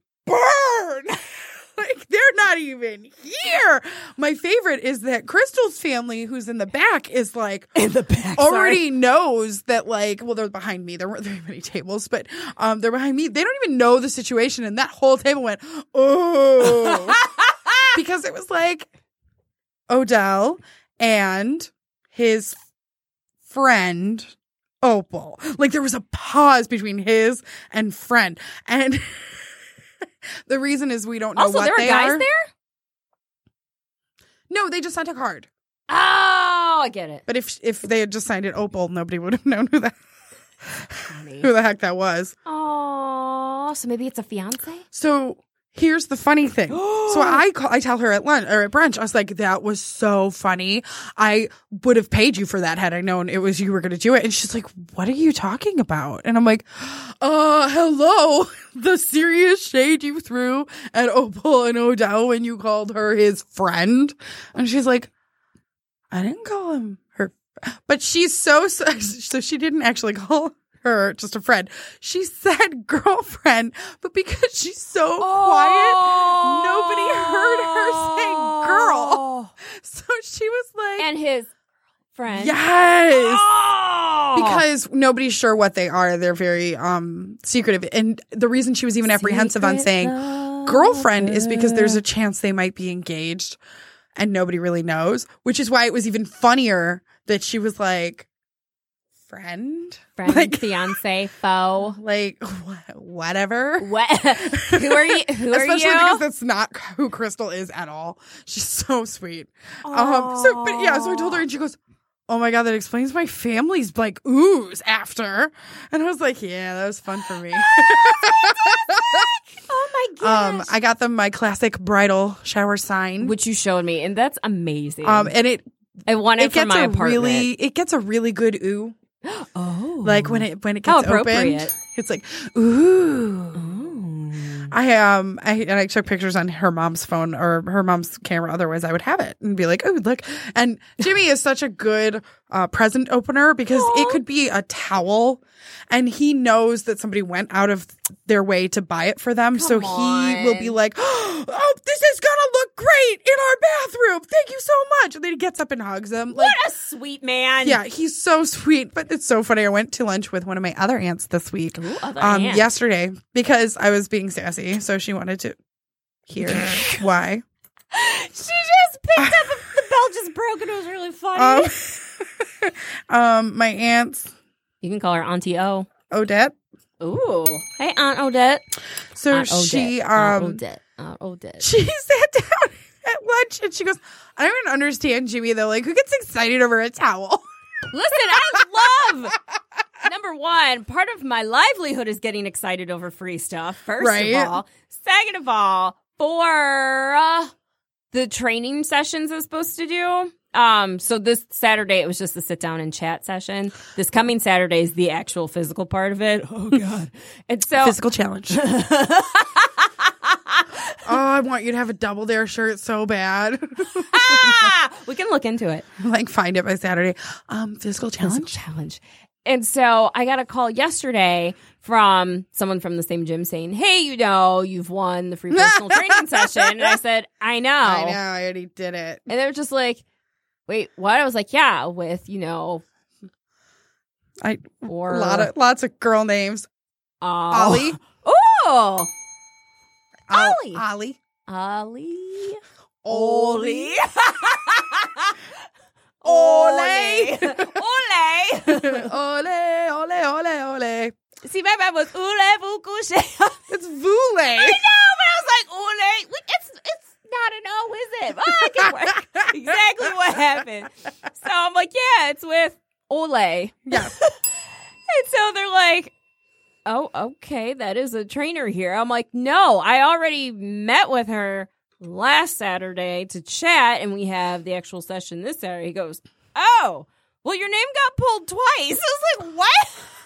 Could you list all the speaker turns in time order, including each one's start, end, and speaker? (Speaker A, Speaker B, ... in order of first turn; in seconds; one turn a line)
Speaker A: 0.2-7.7
Speaker B: 7.8-8.8
Speaker A: 8.4-17.2
Speaker B: 16.6-17.9
Speaker A: 17.9-18.9
Speaker A: 19.9-22.6
Speaker A: 23.5-24.3
Speaker A: 24.8-29.5
Speaker A: 30.5-32.3
Speaker B: 31.4-32.5
Speaker A: 34.5-35.5
Speaker B: 35.9-37.2
Speaker A: 37.3-40.0
Speaker A: 40.6-42.4
Speaker B: 41.1-41.5
Speaker B: 42.5-44.8
Speaker A: 44.9-65.1
Speaker B: 46.7-47.4
Speaker A: 66.1-81.1
Speaker B: 75.2-79.5
Speaker B: 81.0-81.5
Speaker B: 82.2-82.6
Speaker A: 82.3-83.5
Speaker B: 83.1-84.6
Speaker A: 84.3-93.6
Speaker B: 89.0-92.0
Speaker A: 94.2-98.3
Speaker A: 99.3-101.0
Speaker B: 100.2-102.0
Speaker A: 101.9-111.8
Speaker B: 103.8-106.2
Speaker B: 109.8-111.4
Speaker A: 112.3-119.3
Speaker B: 117.6-120.7
Speaker A: 120.2-123.3
Speaker B: 123.2-125.3
Speaker A: 125.0-125.7
Speaker B: 126.1-127.5
Speaker A: 126.4-129.0
Speaker B: 129.2-131.7
Speaker A: 130.0-133.7
Speaker B: 133.6-134.7
Speaker A: 134.7-156.6
Speaker B: 143.7-144.2
Speaker B: 149.5-150.8
Speaker B: 156.3-157.8
Speaker A: 157.6-165.6
Speaker B: 161.8-162.7
Speaker A: 166.3-167.4
Speaker B: 166.4-167.0
Speaker B: 167.9-171.7
Speaker A: 169.2-169.6
Speaker A: 171.4-174.3
Speaker B: 174.8-175.9
Speaker A: 176.1-176.6
Speaker B: 177.0-178.6
Speaker A: 179.1-180.6
Speaker B: 179.3-181.7
Speaker A: 181.6-187.4
Speaker B: 187.9-189.4
Speaker B: 190.0-197.5
Speaker A: 194.0-194.6
Speaker B: 198.1-208.0
Speaker A: 207.8-208.6
Speaker B: 208.5-211.0
Speaker A: 211.0-214.7
Speaker B: 214.0-215.9
Speaker A: 216.0-218.6
Speaker B: 218.2-228.2
Speaker A: 225.5-226.9
Speaker A: 227.8-229.3
Speaker B: 229.3-230.0
Speaker B: 230.7-232.8
Speaker A: 234.4-236.7
Speaker B: 234.8-235.5
Speaker B: 237.2-239.1
Speaker A: 237.5-238.0
Speaker A: 240.3-241.2
Speaker B: 240.3-240.8
Speaker B: 241.5-245.4
Speaker A: 243.0-243.9
Speaker B: 246.2-249.1
Speaker A: 246.2-247.8
Speaker A: 248.7-251.1
Speaker B: 251.4-253.7
Speaker A: 253.7-254.8
Speaker B: 254.5-264.4
Speaker A: 258.6-259.7
Speaker A: 263.9-264.1
Speaker B: 265.1-266.1
Speaker B: 266.9-280.1